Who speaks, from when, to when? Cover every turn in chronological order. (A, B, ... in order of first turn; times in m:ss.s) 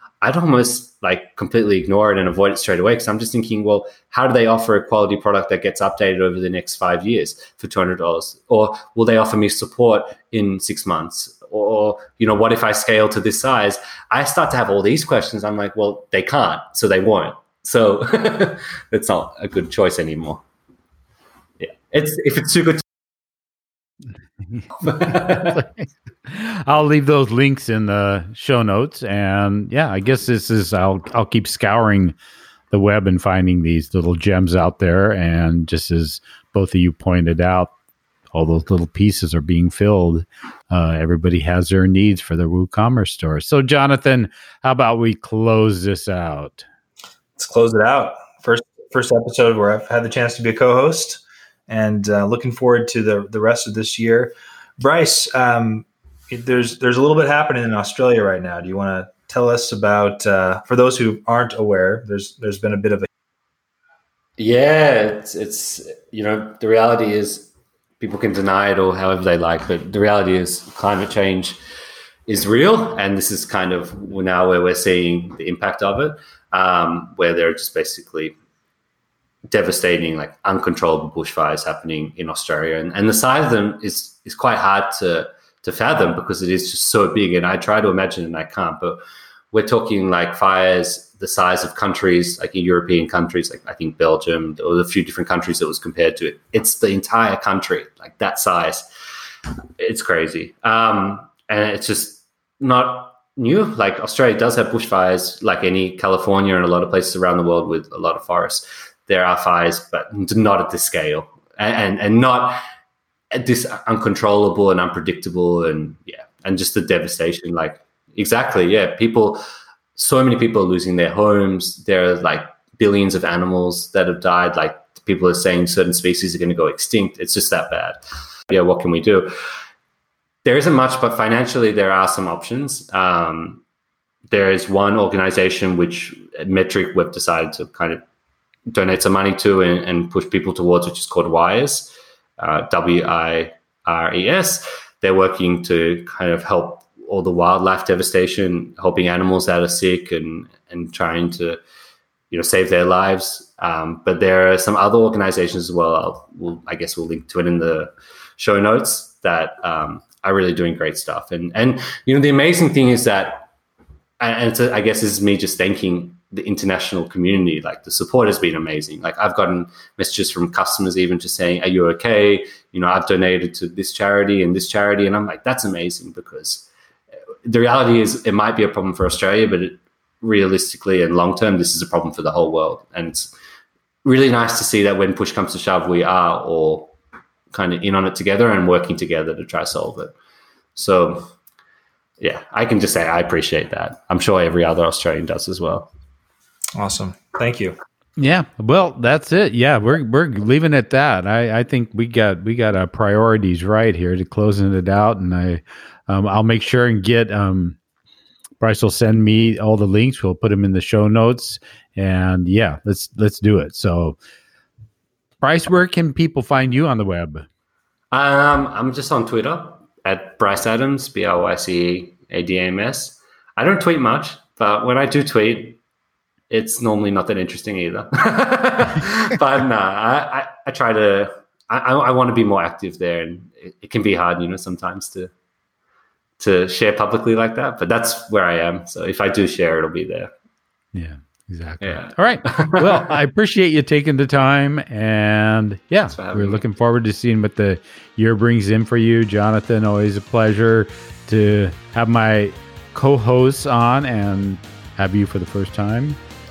0:00.2-0:20.4 A
0:21.6-0:22.8 A
0:24.5-0:32.2 B
0:24.8-0:25.6 A
0:32.7-0:37.7 B
0:38.3-0:46.7 B
0:47.4-1:03.1 C
1:04.4-1:11.6 A
1:12.3-1:18.4 A
1:19.5-1:29.0 A
1:29.5-1:38.9 A
1:39.8-1:52.6 A
1:53.3-1:59.4 A
2:00.0-2:09.3 A
2:10.4-2:13.6 A
2:14.3-2:18.0 A
2:18.7-2:31.6 A
2:32.3-2:43.5 A
2:44.2-2:56.7 A
2:57.4-3:03.3 A
3:04.0-3:07.0 A
3:07.5-3:10.2 A
3:10.8-3:11.3 A
3:12.2-3:15.9 A
3:16.8-3:17.8 C
3:18.2-3:27.8 B
3:28.6-3:34.2 B
3:35.4-3:37.5 B
3:38.1-3:45.8 A
3:46.5-3:55.3 A
3:56.4-4:00.3 A
4:00.9-4:16.2 B
4:01.8-4:03.1 A
4:06.1-4:06.6 A